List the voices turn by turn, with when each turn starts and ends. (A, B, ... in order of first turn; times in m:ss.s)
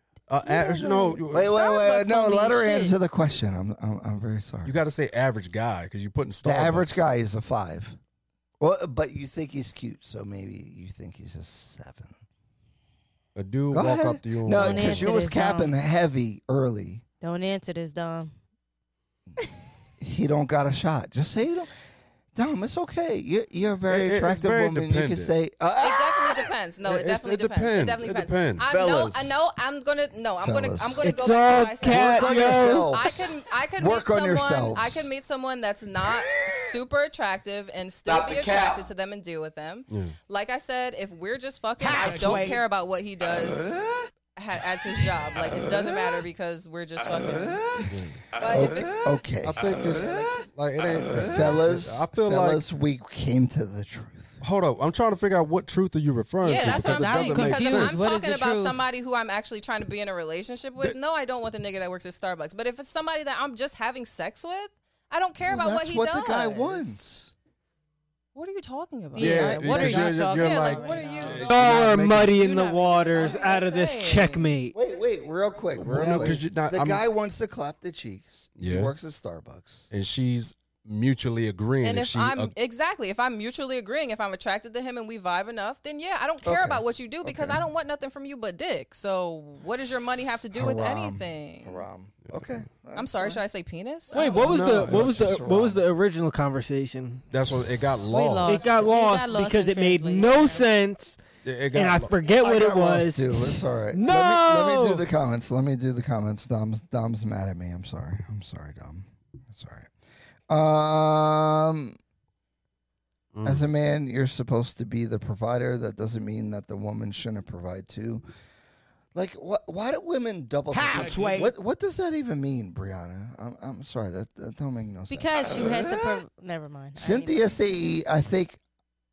0:00.3-0:01.6 A
0:00.4-0:03.0 B
0:01.3-0:04.8 C
0:04.6-0:07.0 A
0:06.4-0:08.0 C
0:08.6-0:12.2 C
0:13.4-0:15.1 A
0:13.7-0:17.0 C
0:14.6-0:15.7 B
0:17.2-0:18.3 B
0:20.0-0:21.7 C
0:22.3-0:26.5 C
0:23.9-0:25.3 A
0:25.8-0:49.1 D
0:26.8-0:28.6 A
0:28.6-0:29.4 C
0:30.4-0:31.2 C
0:31.0-0:33.0 E
0:31.8-0:35.1 C
0:39.9-0:40.2 A
0:41.8-0:42.6 B
0:47.9-0:48.2 A
0:48.5-0:49.6 C
0:49.4-0:52.6 A
0:49.9-0:50.4 D
0:51.1-0:54.4 C
0:54.4-0:58.1 A
0:56.4-1:07.0 D
0:56.5-0:58.8 B
1:05.4-1:07.3 C
1:08.4-1:09.4 D
1:09.2-1:13.3 B
1:09.2-1:12.4 A
1:09.2-1:10.3 C
1:10.3-1:11.5 D
1:11.4-1:14.8 E
1:13.1-1:14.5 D
1:14.7-1:19.9 C
1:15.8-1:17.0 A
1:18.6-1:18.9 A
1:19.9-1:22.5 A
1:21.8-1:31.8 D
1:26.4-1:27.6 C
1:30.5-1:33.4 C
1:32.3-1:32.6 A
1:33.0-1:34.6 D
1:34.1-1:37.7 E
1:34.4-1:35.4 A
1:34.4-1:35.8 C
1:37.3-1:38.6 A
1:37.6-1:37.9 C
1:38.1-1:40.7 B
1:38.4-1:45.1 E
1:41.4-1:42.1 A
1:42.4-1:49.9 C
1:50.5-1:52.0 C
1:53.3-1:53.6 A
1:53.4-1:58.2 C
1:59.2-2:06.0 C
2:00.7-2:01.4 B
2:00.8-2:01.5 E
2:05.1-2:07.9 B
2:07.0-2:08.6 C